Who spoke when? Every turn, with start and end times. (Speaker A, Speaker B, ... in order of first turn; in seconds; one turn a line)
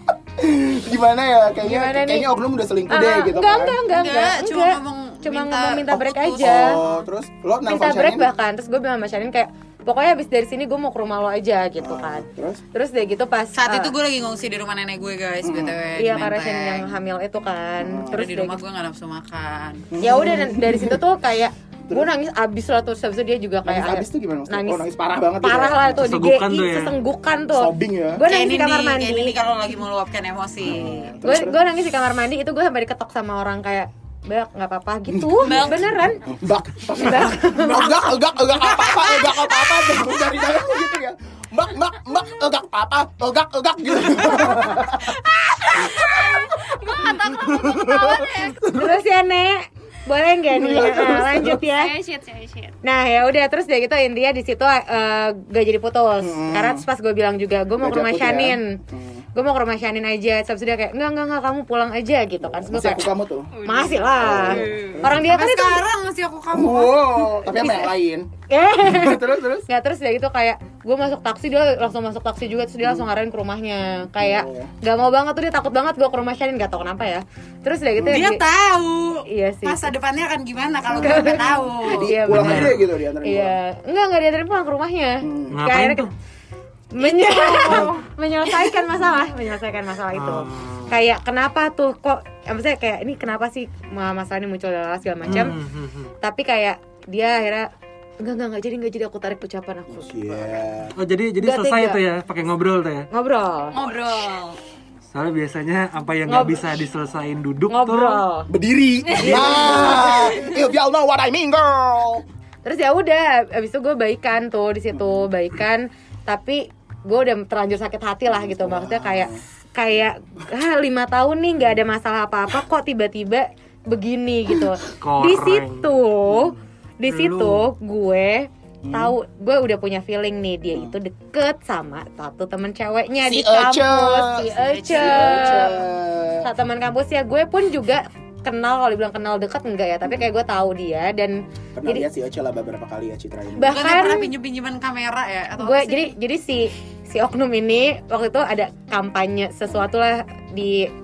Speaker A: 0.3-3.8
Speaker B: 1.6-2.3
Speaker B: 2.9-6.8
Speaker C: 3.9-6.8
Speaker A: 6.3-8.3
Speaker B: 7.7-13.9
Speaker A: 11.8-12.6
Speaker C: 13.6-17.0
Speaker A: 15.4-15.8
Speaker B: 15.9-18.6
Speaker A: 17.8-18.3
Speaker C: 18.1-19.9
Speaker A: 19.9-21.0
Speaker B: 20.0-24.9
Speaker A: 23.6-26.0
Speaker B: 25.4-29.3
Speaker D: 25.9-27.0
Speaker A: 27.5-28.2
Speaker C: 28.2-31.2
Speaker A: 30.6-31.6
Speaker B: 31.2-36.2
Speaker A: 35.1-45.2
Speaker E: 35.4-35.8
Speaker B: 36.9-38.0
Speaker E: 45.3-48.5
Speaker A: 45.7-49.0
Speaker B: 46.0-46.3
Speaker B: 48.1-51.9
Speaker A: 50.4-51.6
Speaker E: 51.7-52.8
Speaker B: 52.8-58.8
Speaker A: 56.2-56.9
Speaker A: 57.8-59.2
Speaker B: 59.3-65.8
Speaker A: 62.4-63.5
Speaker E: 63.5-65.0
Speaker A: 64.2-65.5
Speaker C: 65.1-67.1
Speaker A: 66.5-69.7
Speaker B: 67.5-67.9
Speaker B: 68.5-78.4
Speaker A: 74.2-74.7
Speaker A: 78.0-78.2
Speaker C: 78.0-82.1
Speaker B: 79.3-79.8
Speaker A: 80.8-83.6
Speaker B: 80.9-86.1
Speaker D: 82.2-82.9
Speaker A: 85.2-85.6
Speaker D: 85.5-86.1
Speaker B: 86.9-95.5
Speaker C: 87.0-88.0
Speaker D: 90.1-90.9
Speaker D: 95.2-96.1
Speaker A: 95.3-95.5
Speaker B: 96.2-97.7
Speaker B: 98.2-100.6
Speaker A: 99.9-100.9
Speaker D: 101.0-103.1
Speaker B: 101.4-102.0
Speaker B: 103.1-103.9
Speaker E: 103.7-104.6
Speaker D: 105.1-108.2
Speaker B: 106.3-106.6
Speaker B: 107.7-108.5
Speaker A: 108.5-112.2
Speaker E: 109.0-110.3
Speaker B: 109.2-110.3
Speaker B: 112.6-135.8
Speaker A: 114.9-115.2
Speaker A: 118.3-119.4
Speaker D: 125.0-126.0
Speaker A: 126.3-126.6
Speaker D: 127.0-127.7
Speaker A: 128.8-129.2
Speaker A: 133.2-136.5
Speaker C: 134.6-135.6
Speaker B: 136.4-142.1
Speaker A: 141.8-143.8
Speaker B: 143.6-144.3
Speaker C: 143.6-146.1
Speaker B: 145.6-150.9